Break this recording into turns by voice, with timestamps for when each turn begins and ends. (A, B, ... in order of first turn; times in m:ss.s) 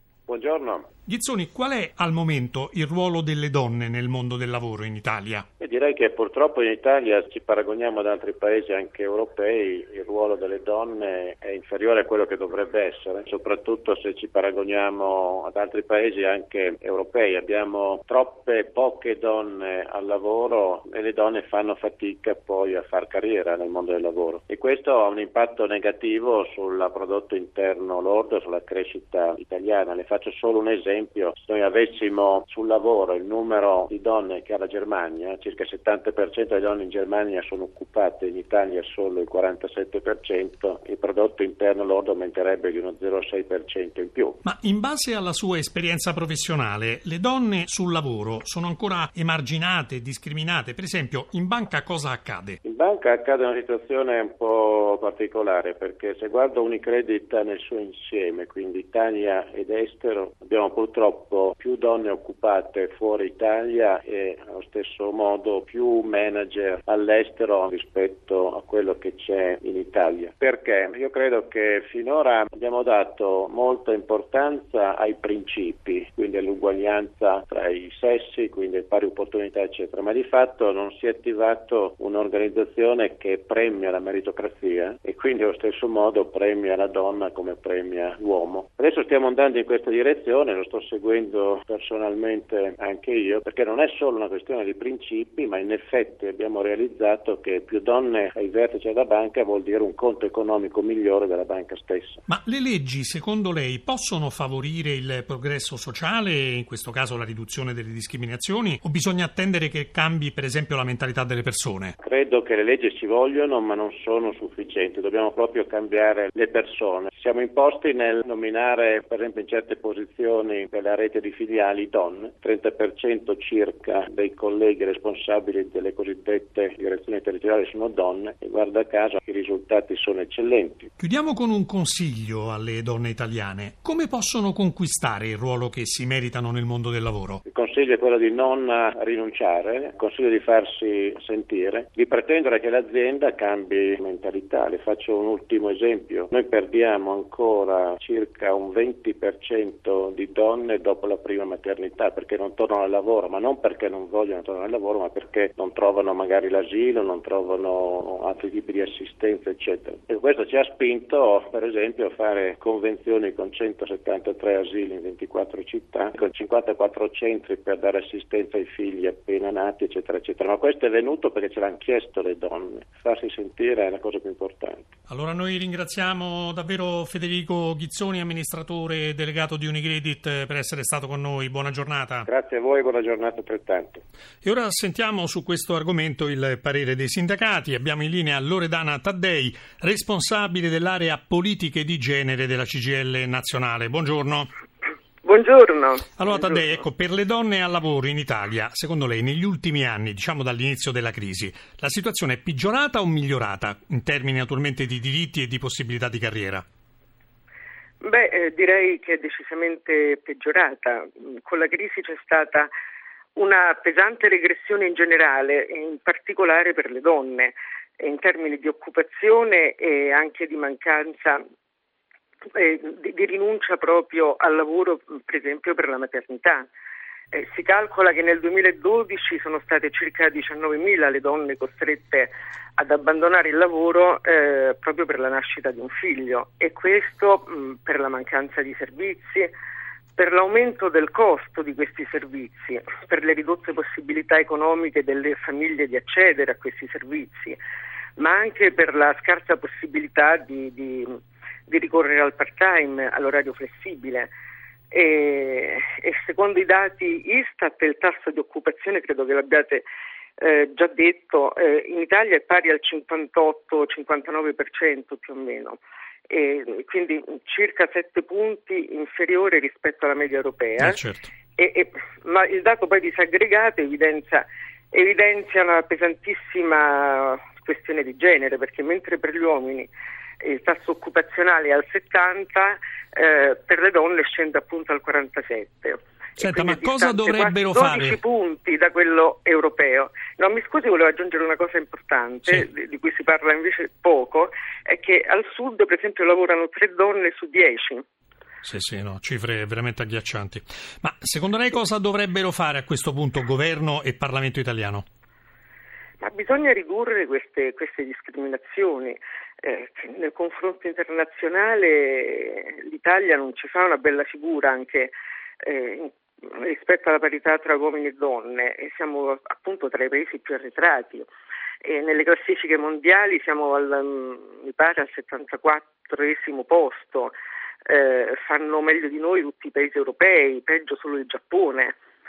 0:00.3-0:00.9 A
0:01.1-0:05.4 B
0:05.6-0:44.4 A
0:44.4-0:52.6 B
0:52.6-1:42.2 A
1:42.3-1:52.0 B
1:52.0-2:10.9 A
2:11.0-2:17.4 B
2:17.5-2:54.9 A
2:55.1-3:02.3 B
3:02.3-3:04.0 A
3:04.4-3:14.5 B
3:15.2-3:16.6 C
3:16.2-3:26.6 B
3:28.0-3:32.7 C
3:33.4-3:41.4 C
3:42.6-3:46.7 C
3:47.3-3:59.5 C
4:00.2-4:07.6 C
4:08.2-4:14.3 C
4:14.9-4:19.8 C
4:20.4-4:31.0 C
4:30.8-4:31.3 B
4:31.6-4:39.9 C
4:40.4-4:58.0 C
4:46.4-4:48.2 B
4:58.6-5:05.0 B
5:06.2-5:21.3 C
5:21.8-5:27.3 C
5:27.9-5:32.0 C